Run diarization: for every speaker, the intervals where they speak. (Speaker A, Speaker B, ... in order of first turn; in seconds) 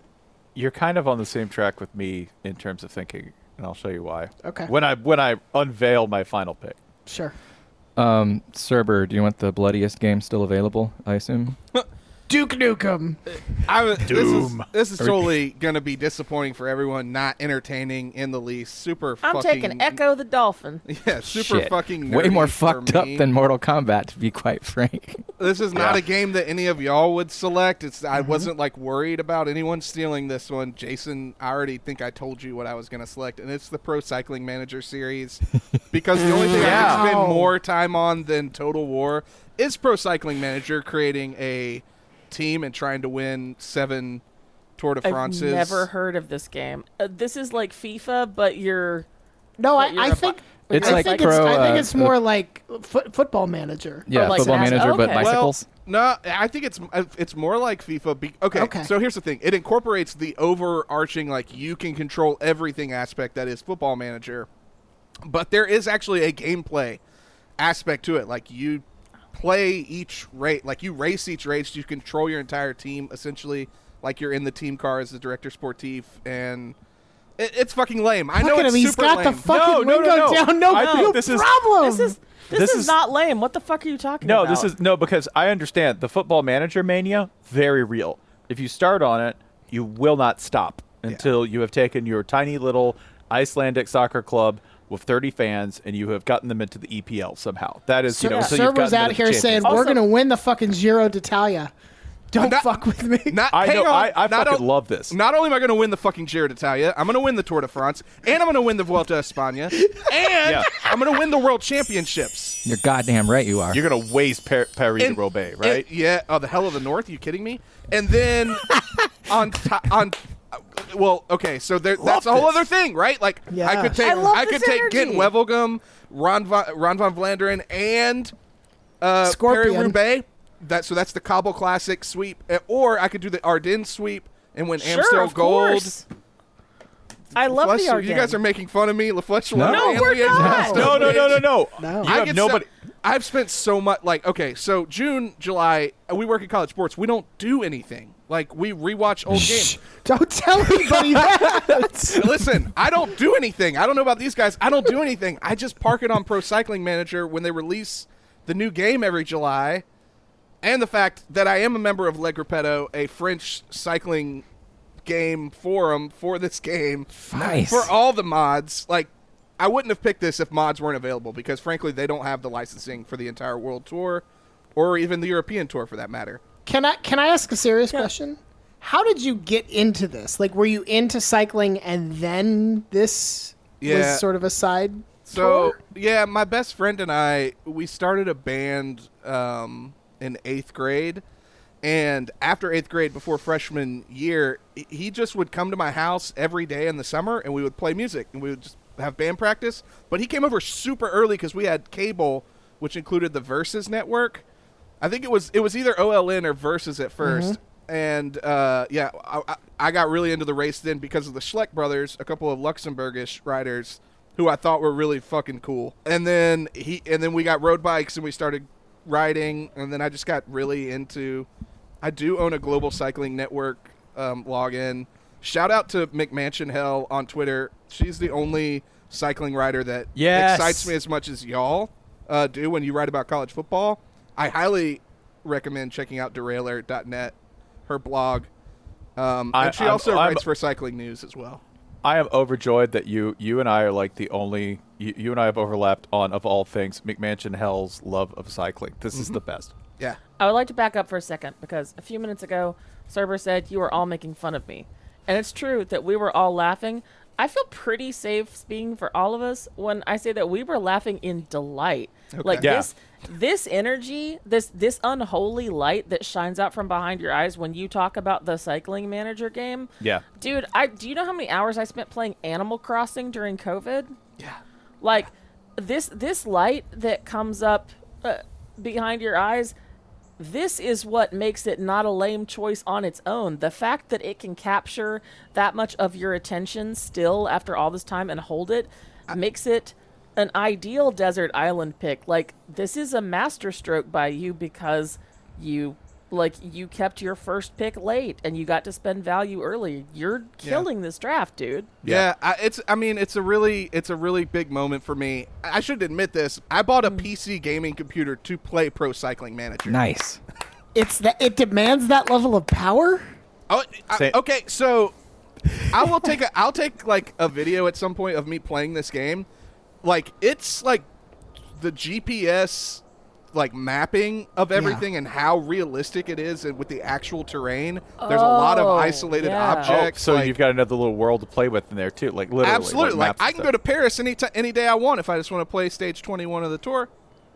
Speaker A: 0.6-6.8, 14.1-14.7, 25.8-26.0, 36.5-37.0, 79.5-81.5, 82.5-82.9, 84.2-99.9, 103.5-105.2, 110.5-110.8, 113.7-115.8, 122.0-122.6, 140.7-142.7, 230.2-230.9, 239.5-240.4, 242.0-249.7, 262.6-262.9, 329.9-333.7
Speaker B: 4.4-4.7, 7.1-7.3, 12.3-13.2, 28.1-28.5, 36.6-37.5, 49.6-54.9, 58.5-58.9, 78.3-82.2, 98.2-101.7, 102.3-103.5, 109.9-110.1, 123.5-124.2, 129.2-130.0, 140.2-141.2, 141.8-142.2, 149.3-152.3, 176.7-185.8, 207.2-207.6, 310.9-313.3, 324.8-325.0
Speaker C: 8.0-11.6, 21.2-25.2, 50.7-52.1, 54.1-55.7, 112.6-113.8, 139.5-141.0, 151.6-151.9, 167.3-167.9, 309.9-310.4
Speaker D: 13.5-20.0, 20.9-23.3, 25.4-44.2, 44.8-45.9, 55.1-64.5, 65.2-67.0, 67.6-76.8, 77.4-79.5, 102.4-102.7, 103.3-112.6, 115.0-128.3, 129.0-136.0, 137.3-141.5, 142.0-149.8, 152.1-159.8, 160.6-164.4, 165.1-176.4, 183.8-184.2, 185.2-191.2, 191.8-204.4, 205.0-221.5, 222.0-237.3, 237.9-238.5, 239.2-241.6, 249.1-249.4, 262.3-262.7, 302.0-310.0, 313.7-315.1, 315.9-319.5, 320.0-321.1, 321.8-330.6, 332.6-337.1
Speaker E: 19.2-20.8, 45.0-49.1, 49.8-51.8, 54.1-55.4, 80.7-81.2, 81.8-84.7, 98.2-98.5, 99.6-100.0, 124.0-125.3, 134.8-136.0, 137.3-138.4, 139.6-141.0, 250.4-274.1, 275.0-279.8, 280.4-301.9, 328.2-330.0